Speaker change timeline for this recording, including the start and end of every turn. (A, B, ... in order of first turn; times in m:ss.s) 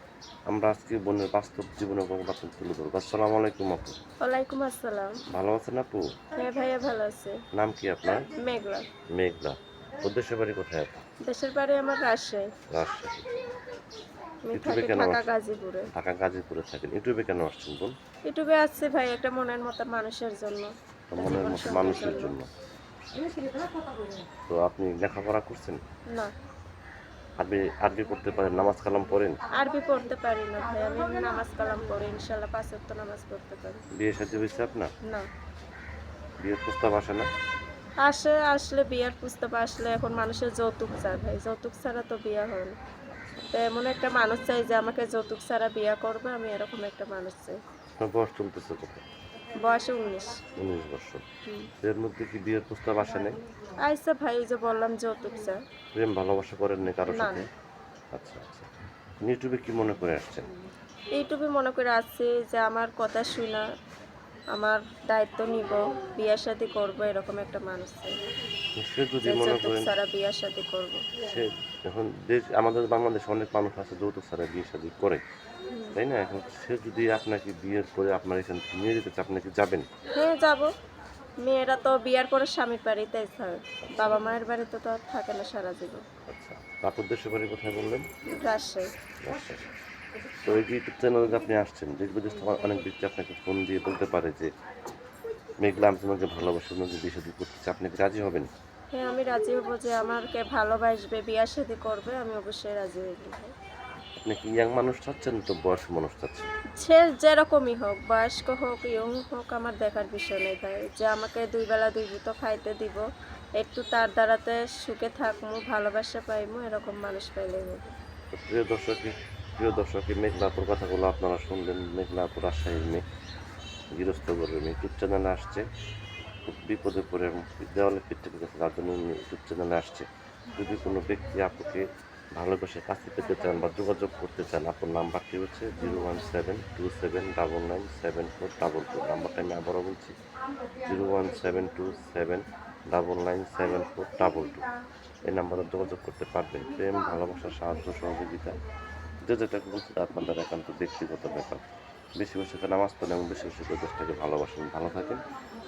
0:00.5-0:04.0 A
0:04.2-0:05.2 B
0:05.3-0:06.2 A
0:06.4-0:07.4 B
0:07.5-0:08.3 A
0:08.4-0:08.9 B
0:09.1-0:11.0 A
0:11.2-0:12.5 B
0:12.7-0:13.3 A
0:14.5-0:15.9 B
0:14.5-0:15.2 A
0:15.9-0:17.9 A
0:18.3-0:22.3 B
0:21.1-0:22.5 A
0:24.5-0:25.8 A
0:27.4-0:29.4 A
0:29.5-0:33.8 B
0:34.0-0:34.9 A
0:36.4-0:37.3 A
0:38.0-0:42.8 B
0:43.5-0:47.6 B
0:48.0-0:49.0 A
0:49.6-0:50.4 B
0:50.6-0:51.2 A
0:51.8-0:53.4 A
0:53.8-0:55.6 B
0:56.0-0:57.5 A
0:57.1-0:57.4 B
0:58.1-0:58.7 A
0:59.2-1:00.5 A
1:01.2-1:03.6 B
1:04.6-1:08.1 B
1:08.8-1:09.9 A
1:09.2-1:11.0 B
1:11.2-1:15.2 A
1:15.7-1:16.0 B
1:16.0-1:19.9 A
1:20.2-1:20.7 B
1:21.4-1:26.0 B
1:23.8-1:24.2 A
1:26.2-1:28.1 A
1:28.3-1:28.9 B
1:29.2-1:29.7 A
1:30.5-1:34.5 A
1:35.6-1:38.5 A
1:38.9-1:43.5 B
1:44.2-1:46.5 A
1:46.8-1:53.0 B
1:53.6-1:57.9 B
1:58.3-2:03.0 A
2:03.9-2:05.7 A
2:06.5-2:20.1 A
2:15.8-2:16.1 B
2:20.9-2:24.6 A
2:25.2-2:28.6 A
2:29.2-2:31.6 A
2:32.2-2:35.2 A